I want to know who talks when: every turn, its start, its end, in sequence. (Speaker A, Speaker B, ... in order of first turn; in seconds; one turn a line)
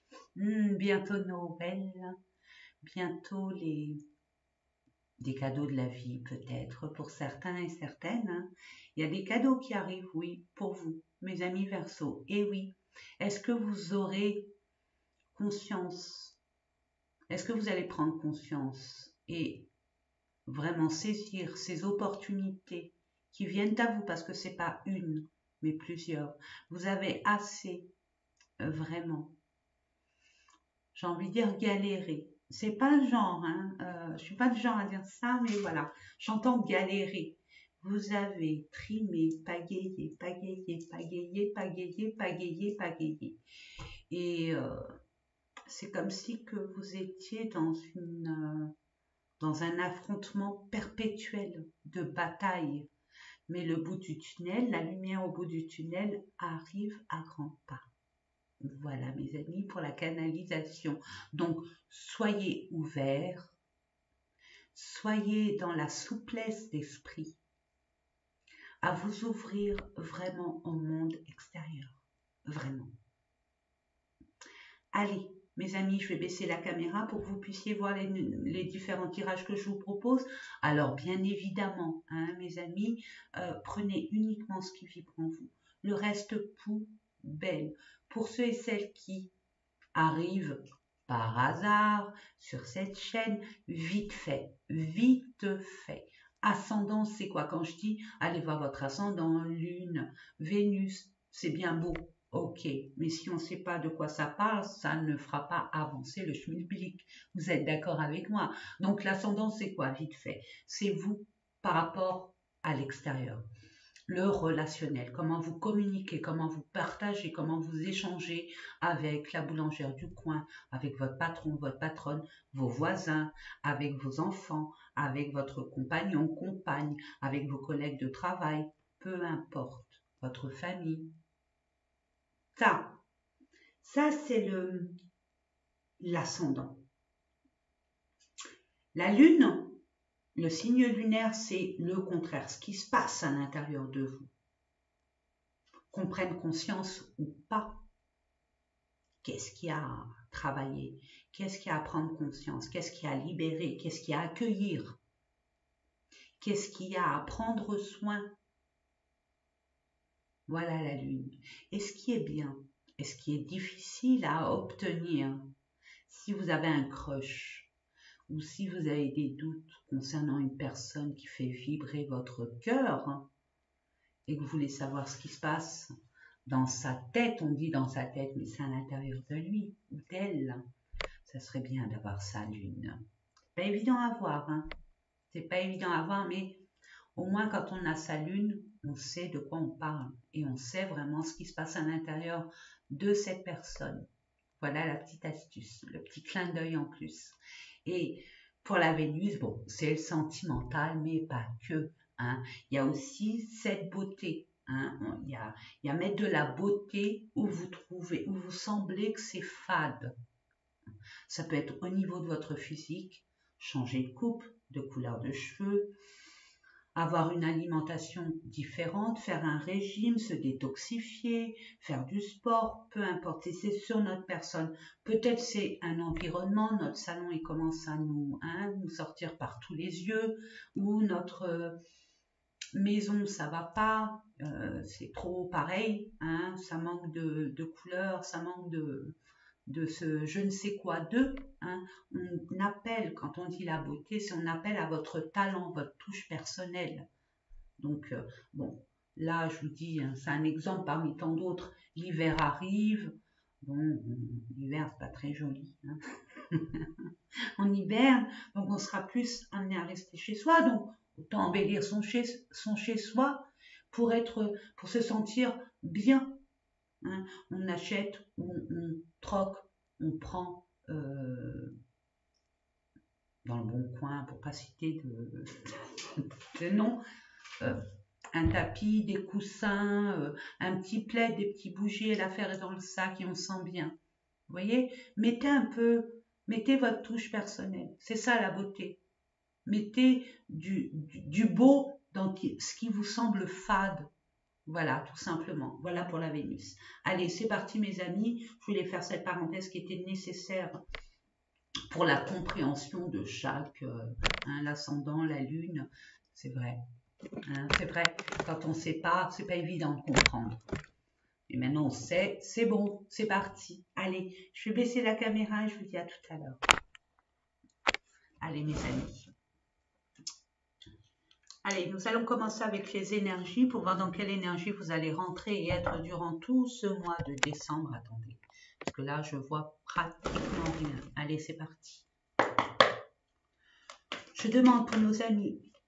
Speaker A: 0.3-2.1
Speaker A: 2.8-4.0
Speaker A: 5.2-14.5
Speaker A: 15.3-16.4
Speaker A: 17.3-19.7
Speaker A: 20.5-27.9
Speaker A: 28.6-29.4
Speaker A: 30.9-43.4
Speaker A: 44.1-44.8
Speaker A: 45.7-48.7
Speaker A: 49.4-52.9
Speaker A: 53.5-57.9
Speaker A: 58.6-63.5
Speaker A: 64.7-67.4
Speaker A: 68.8-72.9
Speaker A: 74.9-89.3
Speaker A: 89.9-113.4
Speaker A: 114.1-131.2
Speaker A: 132.5-133.0
Speaker A: 133.8-134.9
Speaker A: 136.0-136.8
Speaker A: 138.9-139.8
Speaker A: 140.3-144.3
Speaker A: 145.9-147.8
Speaker A: 149.2-155.0
Speaker A: 156.4-158.3
Speaker A: 160.5-165.5
Speaker A: 166.1-167.7
Speaker A: 168.3-173.3
Speaker A: 174.2-175.9
Speaker A: 176.4-180.7
Speaker A: 181.2-183.0
Speaker A: 183.5-184.7
Speaker A: 185.3-194.1
Speaker A: 194.6-210.1
Speaker A: 211.3-215.9
Speaker A: 216.9-231.8
Speaker A: 232.7-247.1
Speaker A: 247.8-257.0
Speaker A: 257.6-266.4
Speaker A: 267.0-271.7
Speaker A: 273.4-277.0
Speaker A: 278.3-283.9
Speaker A: 284.5-289.0
Speaker A: 289.6-294.1
Speaker A: 294.6-300.8
Speaker A: 301.9-306.8
Speaker A: 307.4-310.6
Speaker A: 311.5-316.6
Speaker A: 318.4-319.3
Speaker A: 321.6-332.1
Speaker A: 334.3-335.7